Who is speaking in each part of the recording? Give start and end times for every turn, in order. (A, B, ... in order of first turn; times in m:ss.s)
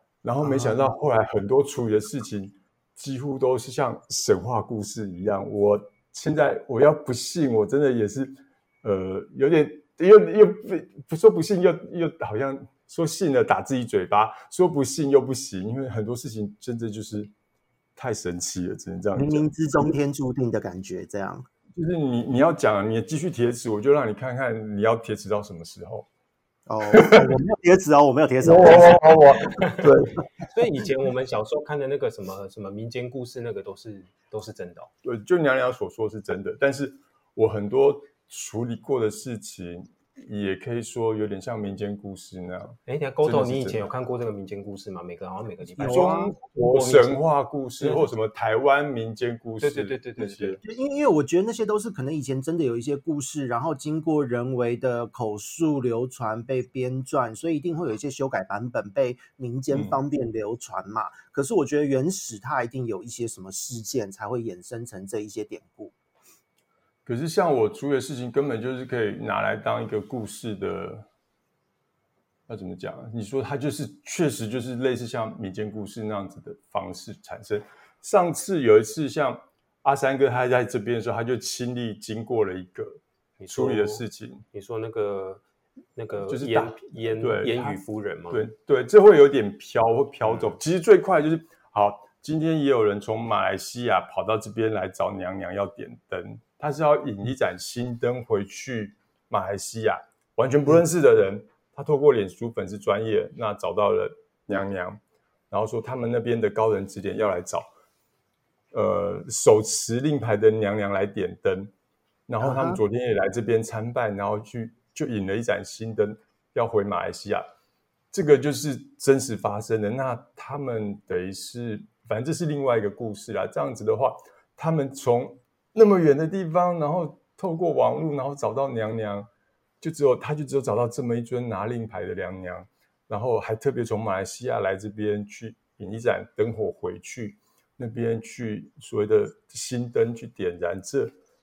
0:00.2-0:17.3 A
0:00.4-0:01.0 B
0:18.0-0:19.9 A
0:19.1-0:21.4 B
0:21.8-0:26.1 A
0:26.7-0:29.2 B
0:26.9-0:27.3 A
0:28.4-0:30.2 A
0:28.7-0:29.9 C
0:30.5-0:34.9 C
0:35.0-0:43.9 A
0:42.8-0:47.2 C
0:45.8-0:46.3 B
0:45.8-0:50.6 A
0:47.8-0:48.0 C
0:49.6-0:50.6 C
0:50.6-1:05.9 B
0:59.7-1:00.0 A
1:07.0-1:11.0 A
1:12.5-1:23.0 A
1:23.4-1:25.4 C
1:23.5-1:24.4 A
1:26.0-1:28.4 C
1:26.3-1:45.0 A
1:45.5-1:47.6 A
1:48.7-1:51.7 A
1:52.3-1:57.4 A
1:52.4-1:52.8 B
1:58.1-2:09.3 A
2:09.8-2:21.2 A